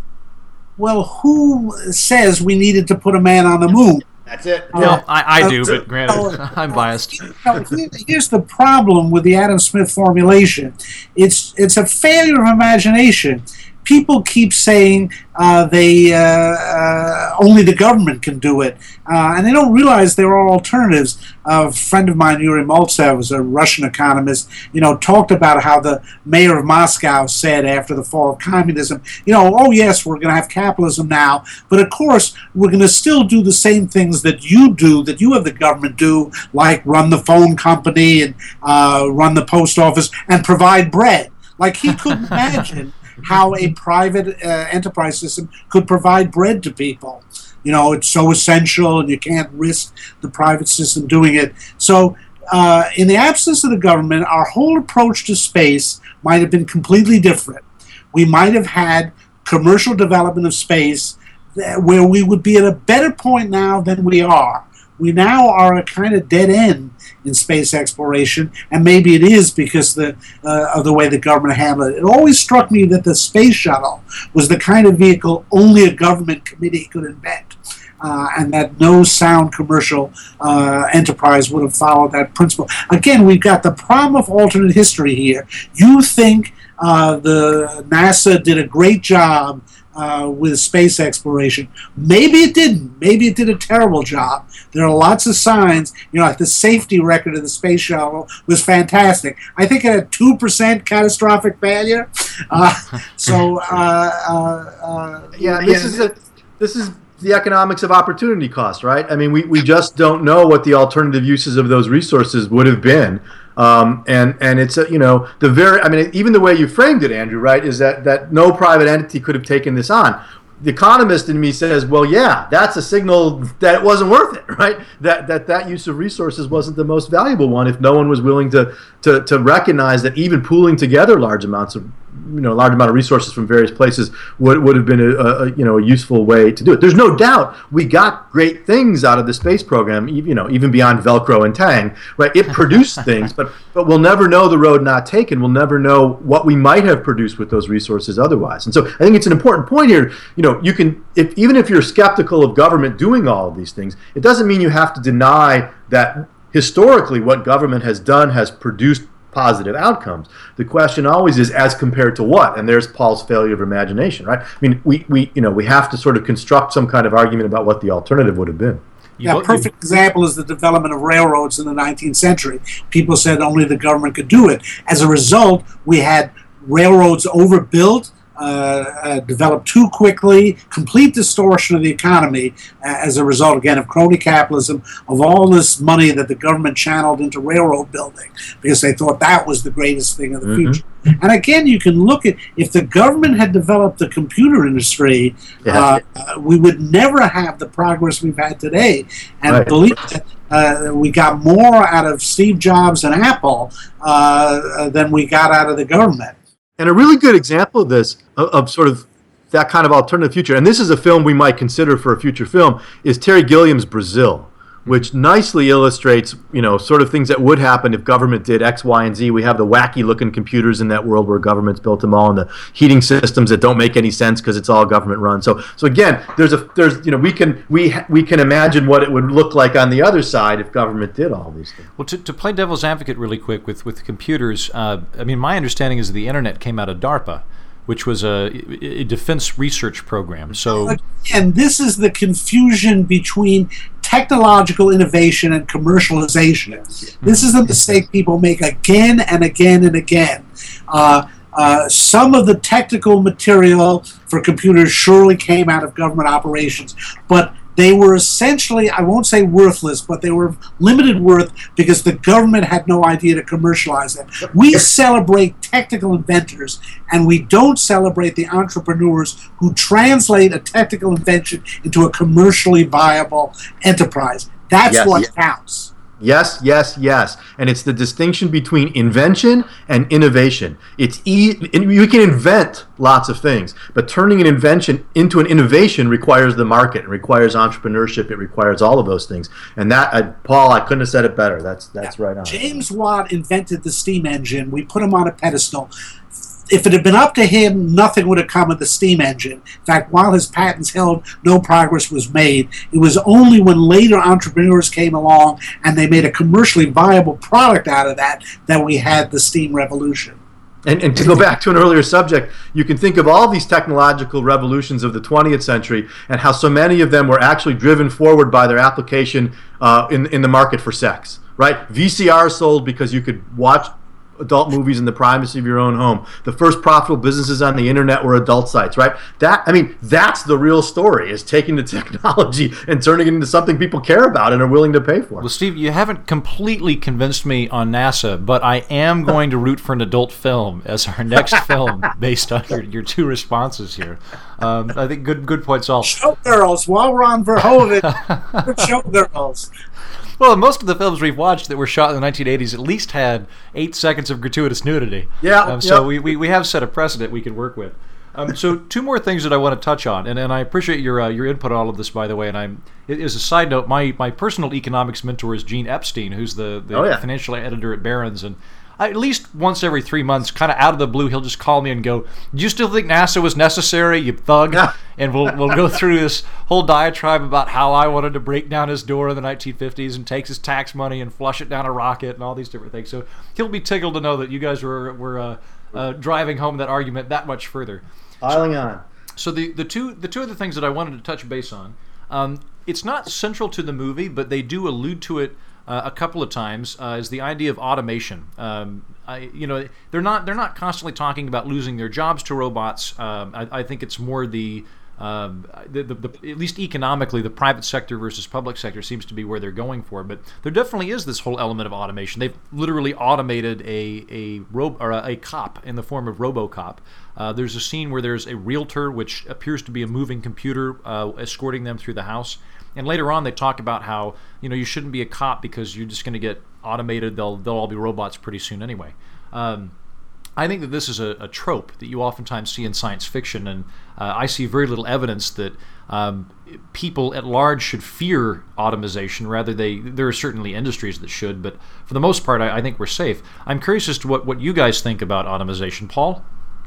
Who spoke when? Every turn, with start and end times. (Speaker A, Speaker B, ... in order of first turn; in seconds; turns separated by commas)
Speaker A: 0.8-4.1, Speaker B: 4.3-5.0, Speaker A: 4.7-106.0, Speaker C: 4.7-7.3, Speaker B: 105.4-168.8, Speaker C: 169.2-169.7, Speaker A: 169.2-206.4, Speaker B: 190.4-190.8, Speaker B: 195.7-196.0, Speaker B: 199.5-199.8, Speaker B: 206.8-231.9, Speaker C: 232.0-241.0, Speaker A: 240.8-275.9, Speaker B: 274.9-275.3, Speaker B: 276.2-292.8, Speaker A: 292.5-295.9, Speaker A: 296.7-310.4, Speaker B: 310.9-335.5, Speaker C: 335.4-346.2, Speaker A: 346.1-349.7, Speaker C: 348.2-348.7, Speaker C: 350.4-388.0, Speaker B: 355.4-356.1, Speaker B: 366.9-367.2, Speaker B: 388.4-389.0, Speaker C: 389.4-429.9, Speaker C: 430.6-446.4